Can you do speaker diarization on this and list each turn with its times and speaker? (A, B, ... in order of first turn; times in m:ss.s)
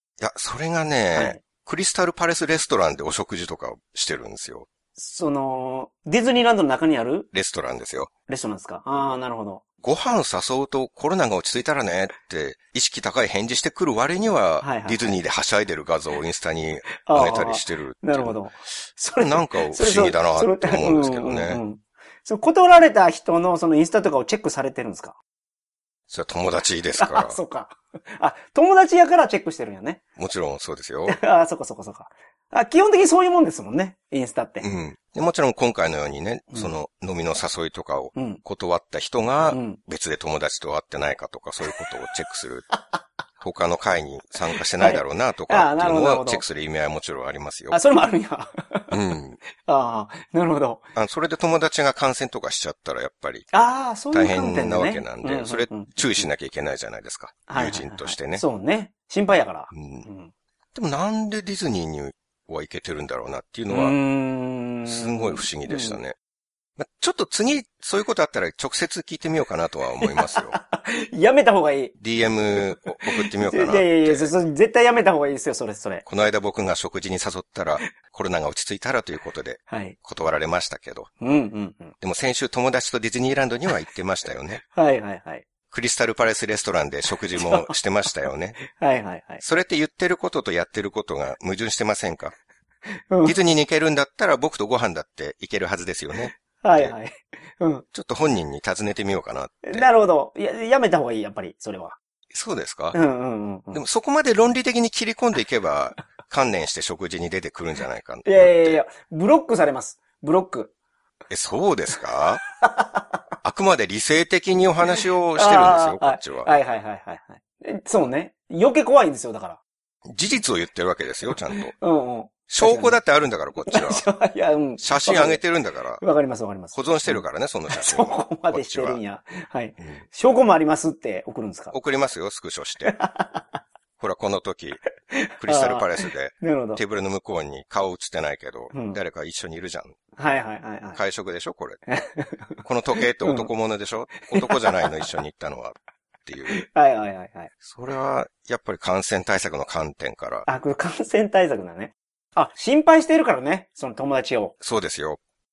0:00.2-0:04.7 A
0:01.1-0:01.4 B
0:05.0-0:07.3 B
0:07.3-0:08.1 A
0:08.3-0:09.6 B
0:09.8-0:18.4 A
0:14.6-0:15.1 B
0:17.0-0:25.2 B
0:19.2-0:21.6 A
0:26.1-0:27.4 A
0:27.0-0:30.0 B
0:30.2-0:31.2 A
0:31.1-0:34.7 B
0:34.6-0:42.7 A
0:38.1-0:38.4 B
0:39.5-0:39.8 B
0:43.4-0:47.8 A
0:44.8-0:46.4 B
0:47.7-0:48.9 B
0:48.9-0:49.4 A
0:49.5-0:50.8 B
0:50.9-0:53.5 A
0:53.5-0:56.3 B
0:54.1-0:58.4 A
0:57.5-1:00.3 B
0:59.7-1:00.1 A
1:00.7-1:04.0 A
1:03.7-1:06.0 B
1:04.9-1:06.2 A
1:06.8-1:10.6 A
1:10.0-1:11.9 B
1:12.0-1:14.3 A
1:13.0-1:16.1 B
1:16.1-1:21.1 A
1:19.7-1:20.0 B
1:21.2-1:21.9 B
1:22.0-1:24.6 A
1:24.7-1:25.4 B
1:25.7-1:28.6 A
1:27.4-1:27.7 B
1:28.6-1:29.4 B
1:29.4-1:32.4 A
1:32.9-1:33.4 B
1:33.2-1:36.9 A
1:36.6-1:37.9 B
1:37.9-1:39.9 A
1:39.6-1:42.0 B
1:42.3-1:43.0 A
1:42.9-1:43.8 B
1:43.7-1:48.8 A
1:48.2-1:50.7 B
1:51.3-1:52.4 A
1:52.6-1:53.1 B
1:53.4-1:56.5 A
1:55.4-1:59.6 B
2:00.1-2:01.7 A
2:01.7-2:03.0 B
2:02.5-2:04.1 A
2:03.6-2:05.4 B
2:04.8-2:06.0 A
2:06.0-2:11.7 B
2:06.7-2:09.0 A
2:11.7-2:12.9 A
2:12.9-2:13.4 B
2:14.0-2:14.8 A
2:15.1-2:16.8 B
2:15.4-2:20.0 A
2:18.7-2:19.0 B
2:20.2-2:21.0 B
2:20.9-2:21.8 A
2:21.9-2:22.6 B
2:22.6-2:26.6 A
2:23.2-2:23.5 B
2:24.2-2:24.9 B
2:26.5-2:27.5 B
2:27.6-2:30.5 A
2:30.5-2:34.6 B
2:34.6-2:35.2 A